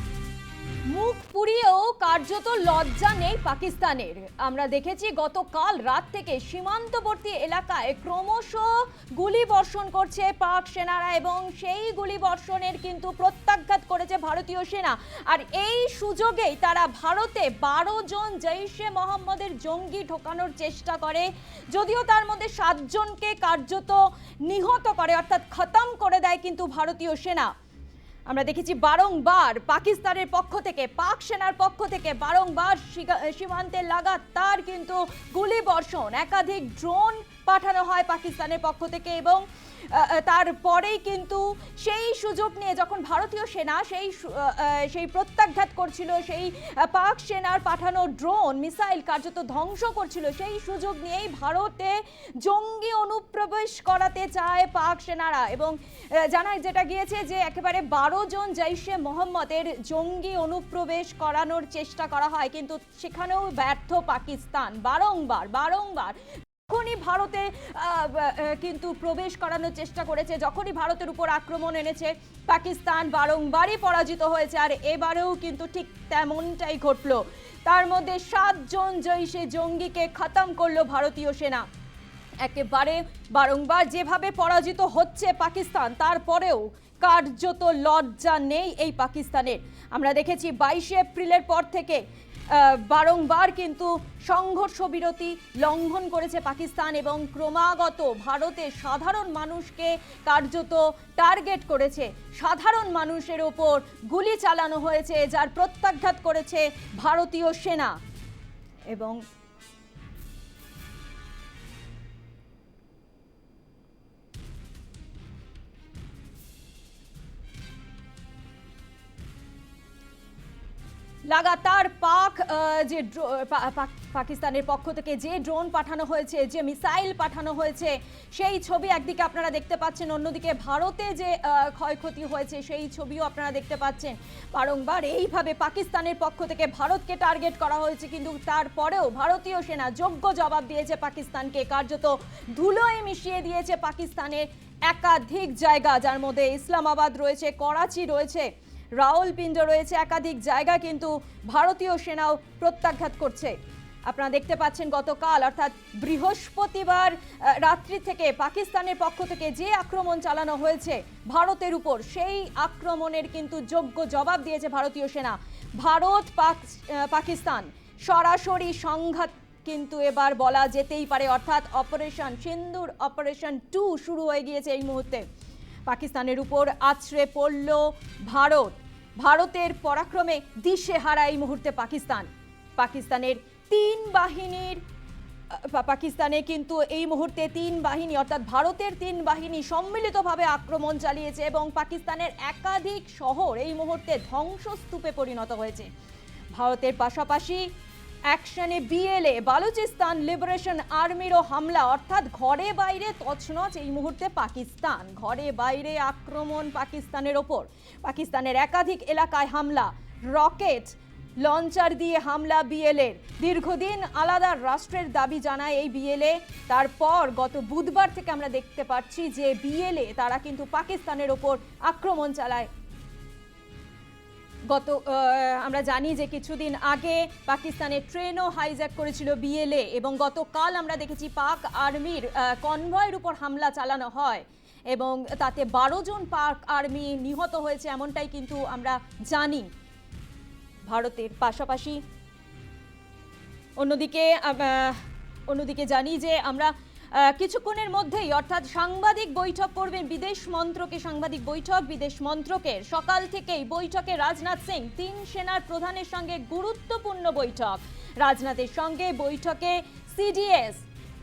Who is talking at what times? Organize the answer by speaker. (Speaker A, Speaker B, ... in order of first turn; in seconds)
Speaker A: 0.9-27.5, 28.3-81.7, 82.4-108.0, 108.9-109.2, 121.3-153.6, 154.1-175.2, 175.9-184.8, 185.5-195.9, 196.5-197.7, 198.3-222.7, 224.7-239.7, 240.9-242.0, 243.8-260.8